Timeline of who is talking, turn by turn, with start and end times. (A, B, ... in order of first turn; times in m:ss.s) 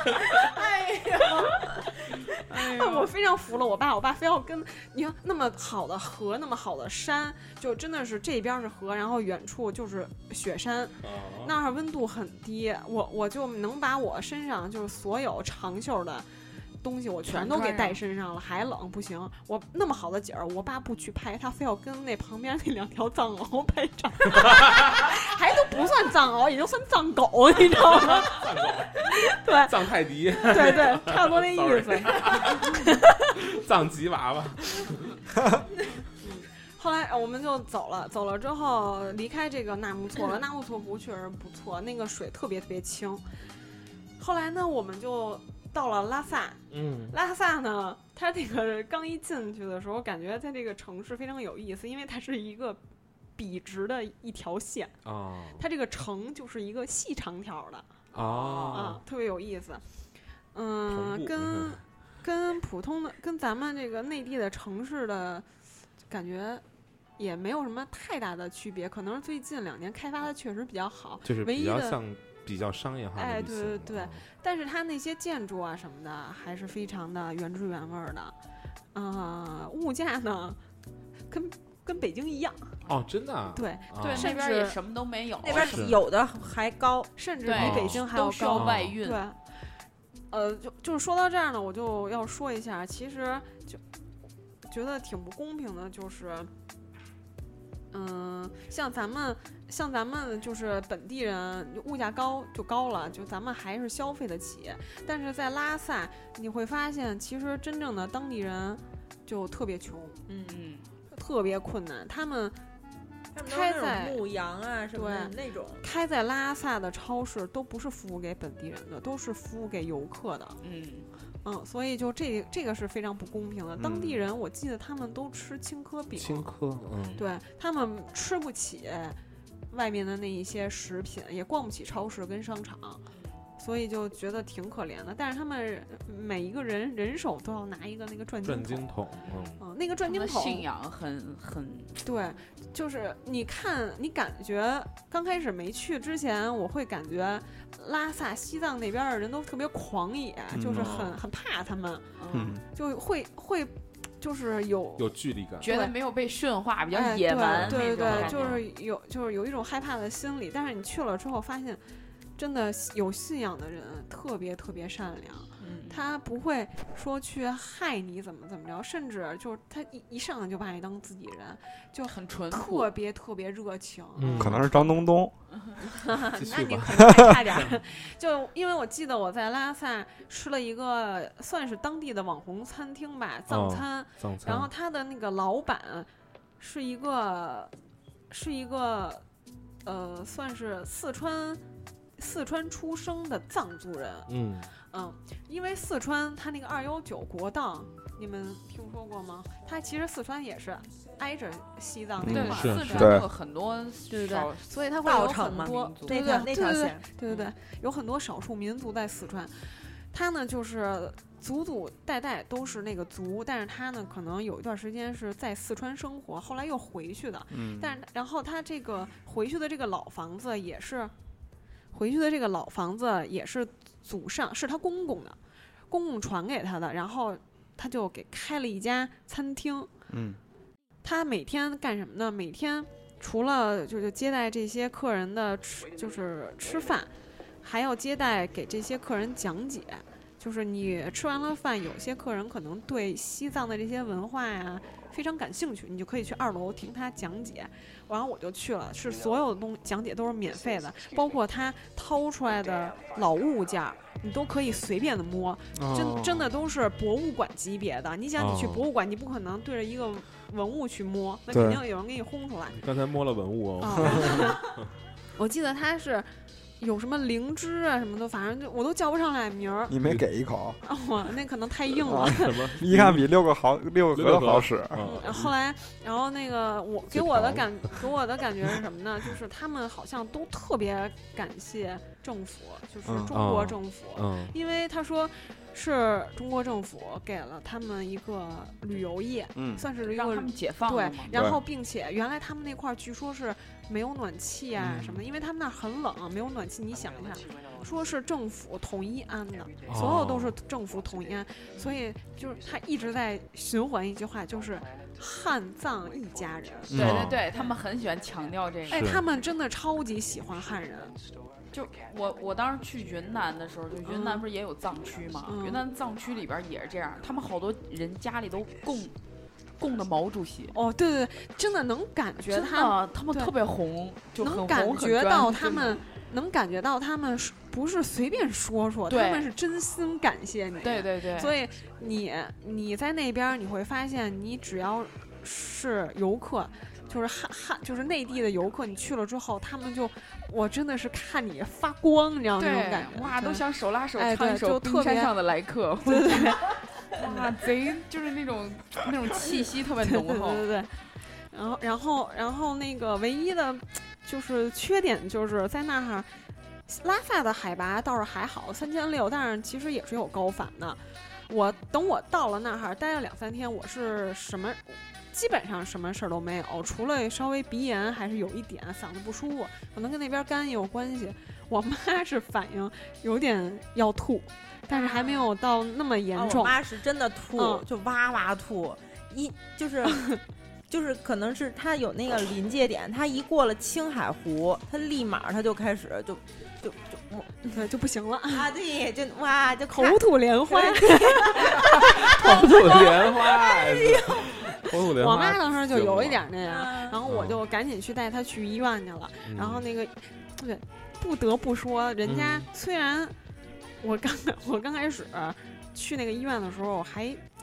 0:00.4-0:01.7 A
0:01.2-0:01.5 B
0:02.2-0:16.3 B
0:02.6-0:03.1 C
0:11.0-0:11.6 D
0:16.8-0:33.3 B
0:17.3-0:18.0 C
0:24.4-0:25.0 D
0:27.9-0:35.2 D
0:36.2-0:43.2 B
0:44.2-0:52.8 B
0:46.7-0:47.2 D
0:53.4-0:55.0 B
0:55.0-0:55.6 D
0:55.6-0:59.8 B
0:58.1-0:59.0 D
1:00.5-1:05.5 B
1:00.9-1:01.8 D
1:06.1-1:06.6 B
1:07.2-1:12.0 B
1:11.2-1:14.2 D
1:13.2-1:18.4 B
1:18.9-1:20.6 B
1:21.3-1:22.8 B
1:22.9-1:24.3 D
1:23.5-1:24.8 B
1:24.0-1:25.9 C
1:25.4-1:27.1 A
1:25.6-1:26.0 D
1:27.2-1:29.4 B
1:27.4-1:29.2 C
1:27.6-1:29.0 D
1:30.3-1:33.8 B
1:34.6-1:36.5 B
1:37.9-1:50.2 B
1:50.3-1:50.6 A
1:50.5-1:50.9 C
1:51.1-1:52.6 B
1:53.3-1:55.8 A
1:53.4-1:54.2 B
1:54.9-2:00.6 B
2:00.6-2:01.1 C
2:01.4-2:06.5 B
2:03.8-2:04.2 E
2:06.2-2:07.2 D
2:07.2-2:09.2 B
2:09.7-2:13.0 B
2:13.6-2:18.9 B
2:18.4-2:19.6 D
2:19.6-2:20.7 B
2:20.0-2:22.0 C
2:22.0-2:35.9 B
2:30.5-2:31.0 E
2:30.7-2:31.2 D
2:32.2-2:32.6 C
2:32.3-2:32.6 E
2:35.0-2:35.7 D
2:35.6-2:38.6 C
2:36.9-2:41.8 B
2:37.6-2:38.5 D
2:42.4-2:54.7 B
2:45.6-2:46.0 C
2:52.1-2:52.9 C
2:54.2-2:54.7 D
2:54.4-2:55.3 E
2:55.5-2:55.8 C
2:55.9-3:06.1 B
2:56.3-2:57.7 D
2:57.0-2:57.4 A
3:03.5-3:04.7 D
3:06.6-3:07.7 B
3:08.3-3:09.2 B
3:09.8-3:11.6 B
3:12.2-3:14.3 B
3:14.3-3:14.7 D
3:14.9-3:23.2 B
3:22.2-3:23.3 E
3:22.3-3:26.4 C
3:22.4-3:23.1 D
3:24.1-3:24.5 A
3:24.3-3:41.1 B
3:25.0-3:27.0 A
3:37.5-3:38.0 E
3:41.9-3:45.4 B
3:45.9-3:49.9 B
3:50.1-3:50.4 E
3:51.0-3:57.1 B
3:57.6-4:22.8 B
4:15.8-4:16.5 E
4:18.4-4:18.9 D
4:21.5-4:21.8 E
4:22.7-4:24.8 D
4:23.8-4:24.7 B
4:25.4-4:30.0 B
4:29.9-4:30.8 E
4:30.0-4:30.3 D
4:30.8-4:32.8 B
4:32.0-4:35.2 E
4:32.3-4:33.3 D
4:34.1-4:35.5 D
4:35.0-5:07.8 B
4:37.1-4:38.0 D
4:43.1-4:43.3 E
4:43.3-4:44.6 D
4:49.6-4:49.8 E
4:50.0-4:51.5 C
4:51.3-4:51.6 E
4:54.8-4:55.2 D
4:59.9-5:00.6 D
5:06.9-5:07.2 E
5:06.9-5:07.4 D
5:06.9-5:09.1 C
5:08.9-5:11.1 B
5:08.9-5:09.2 D
5:11.7-5:19.2 C
5:14.0-5:14.4 B
5:15.4-5:15.8 B
5:19.8-5:20.8 C
5:20.7-5:23.5 B
5:22.5-5:26.0 C
5:24.4-5:43.6 B
5:29.1-5:29.5 C
5:30.8-5:31.6 C
5:42.6-5:50.7 C
5:44.2-5:45.3 B
5:46.0-5:47.4 B
5:49.4-5:51.0 B
5:51.5-5:56.3 B
5:56.9-6:16.8 B
6:14.9-6:15.4 C
6:16.3-6:20.3 A
6:17.6-6:17.8 B
6:20.1-6:20.4 B
6:20.9-6:27.7 A
6:27.7-6:28.7 B
6:28.5-6:31.9 A
6:29.9-6:33.0 B
6:31.8-6:36.5 D
6:32.4-6:33.0 A
6:34.0-6:34.3 A
6:35.0-6:43.3 B
6:36.7-6:37.2 A
6:37.3-6:37.6 D
6:39.4-6:39.8 D
6:42.2-6:42.7 D
6:44.0-6:47.4 B